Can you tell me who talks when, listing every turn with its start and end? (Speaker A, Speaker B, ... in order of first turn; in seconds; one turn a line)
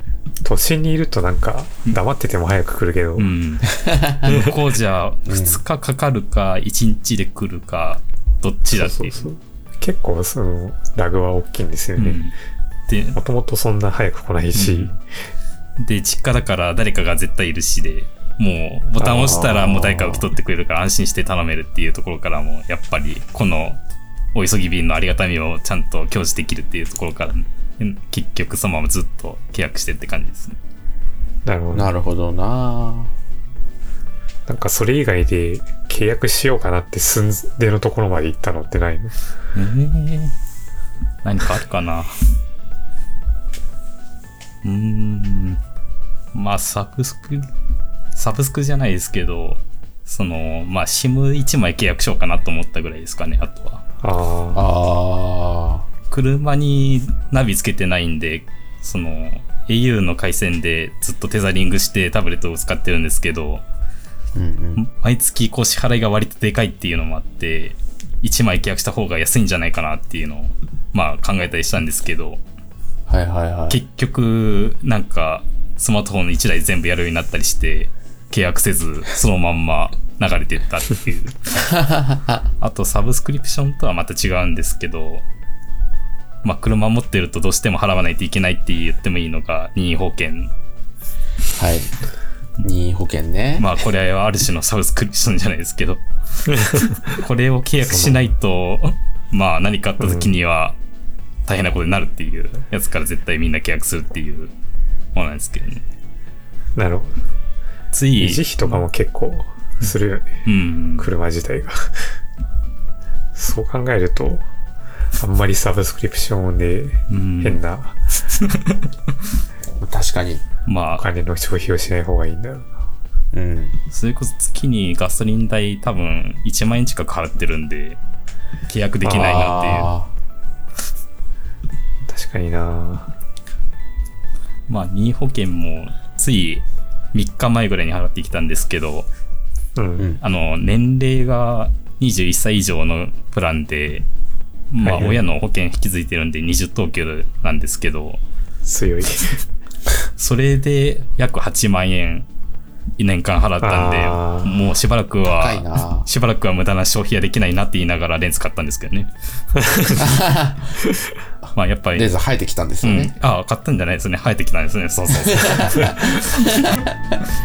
Speaker A: 0.4-3.3
Speaker B: 3.2-9.3
Speaker C: 3.7-4.4
Speaker C: 5.3-5.6
Speaker A: 8.7-12.2
Speaker B: 12.0-12.3
Speaker B: 12.9-13.2
Speaker A: 13.1-15.0
Speaker B: 14.5-14.9
Speaker B: 15.8-23.8
Speaker A: 19.0-20.0
Speaker B: 24.3-30.6
Speaker A: 31.4-31.9
Speaker C: 31.7-33.1
Speaker A: 34.5-39.1
Speaker B: 39.5-40.3
Speaker B: 41.2-42.2
Speaker B: 44.6-45.6
Speaker B: 46.3-47.5
Speaker B: 48.1-53.8
Speaker A: 54.0-54.6
Speaker C: 54.5-55.9
Speaker B: 56.1-63.6
Speaker C: 64.3-64.8
Speaker B: 64.8-72.4
Speaker C: 73.1-73.8
Speaker B: 73.7-81.7
Speaker C: 81.7-82.4
Speaker B: 82.6-85.2
Speaker B: 86.4-90.5
Speaker C: 91.5-91.9
Speaker C: 92.6-93.7
Speaker B: 93.6-96.0
Speaker A: 96.5-97.1
Speaker B: 96.6-100.8
Speaker A: 100.0-100.3
Speaker B: 101.4-104.5
Speaker B: 105.1-105.8
Speaker A: 106.8-107.2
Speaker B: 107.9-108.8
Speaker A: 108.2-110.3
Speaker B: 110.4-111.1
Speaker A: 111.0-111.9
Speaker A: 113.3-114.4
Speaker A: 115.2-118.0
Speaker B: 117.1-117.6
Speaker B: 118.4-118.8
Speaker C: 119.8-120.4
Speaker B: 120.7-121.0
Speaker A: 121.0-122.7
Speaker C: 123.3-123.8
Speaker B: 123.9-128.0
Speaker B: 128.7-129.9
Speaker A: 129.0-129.6
Speaker C: 129.0-130.1
Speaker A: 132.1-133.1
Speaker B: 134.7-139.1
Speaker A: 139.8-140.1
Speaker B: 140.2-144.1
Speaker B: 144.7-148.2
Speaker A: 144.8-145.2
Speaker A: 148.7-149.4
Speaker B: 150.2-152.3
Speaker B: 153.0-159.1
Speaker A: 153.6-154.5
Speaker C: 155.3-156.1
Speaker A: 159.7-160.0
Speaker C: 160.0-160.8
Speaker C: 161.4-163.1
Speaker B: 161.5-162.1
Speaker B: 162.8-166.7
Speaker C: 165.2-167.2